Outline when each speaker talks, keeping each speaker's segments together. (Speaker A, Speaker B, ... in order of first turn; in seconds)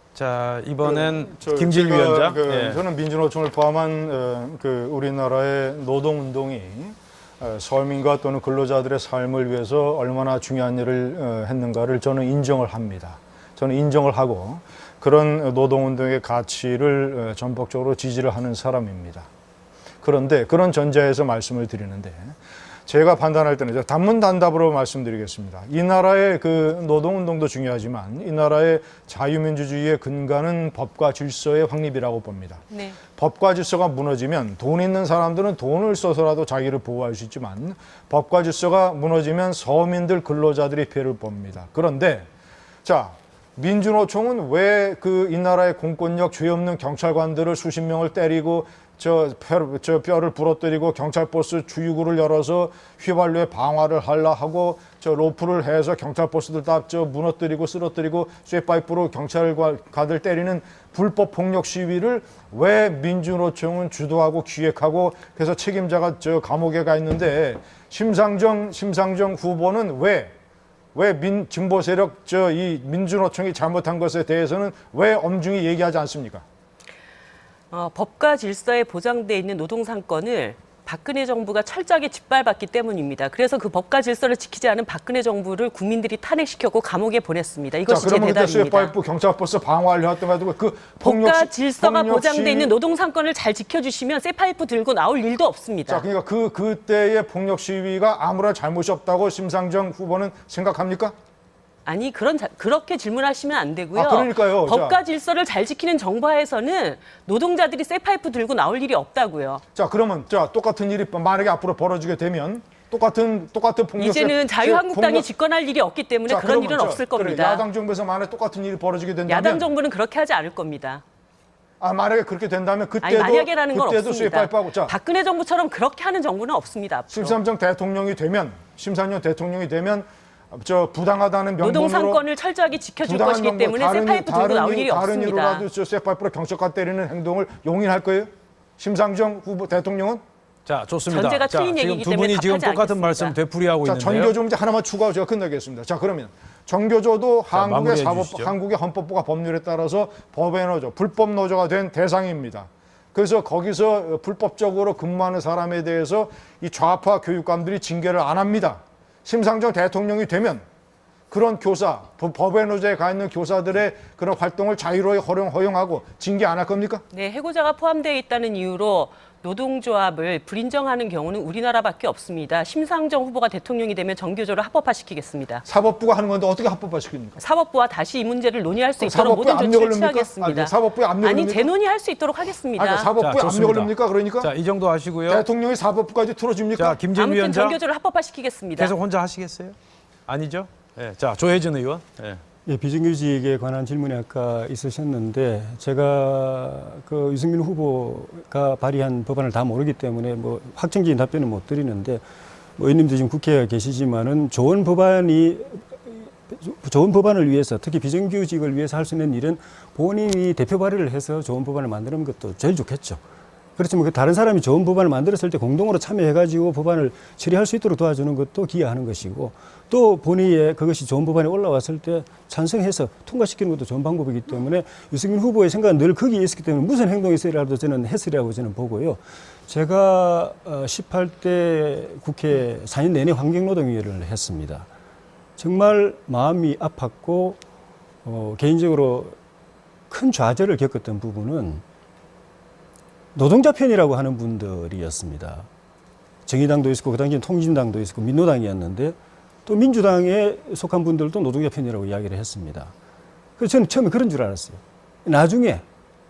Speaker A: 0.1-2.8, 140.7-144.4, 147.5-148.5, 183.2-185.4, 186.8-187.8, 188.8-189.8, 190.3-192.4
Speaker B: 0.8-19.3, 20.0-22.4, 22.9-32.6, 33.2-42.3, 42.8-70.3, 70.9-76.4, 87.9-92.7, 95.9-101.1, 103.9-105.0, 109.7-115.2, 116.3-119.7, 121.8-124.9, 127.1-132.2, 133.0-140.2, 143.8-160.6, 161.3-167.0, 175.7-177.4, 179.0-181.7, 182.8-184.5, 185.3-187.0
Speaker C: 32.7-33.0, 77.7-88.9, 91.0-96.0, 101.8-109.6, 114.0-117.6, 119.3-121.0, 123.0-127.4, 131.6-135.6, 141.1-143.4, 167.1-175.6, 177.4-183.1, 187.1-188.9
Speaker D: 192.7-202.2, 202.8-213.2, 213.8-234.9, 235.6-237.6, 238.2-239.3, 240.1-241.8, 243.3-245.7, 246.4-252.9, 253.6-255.8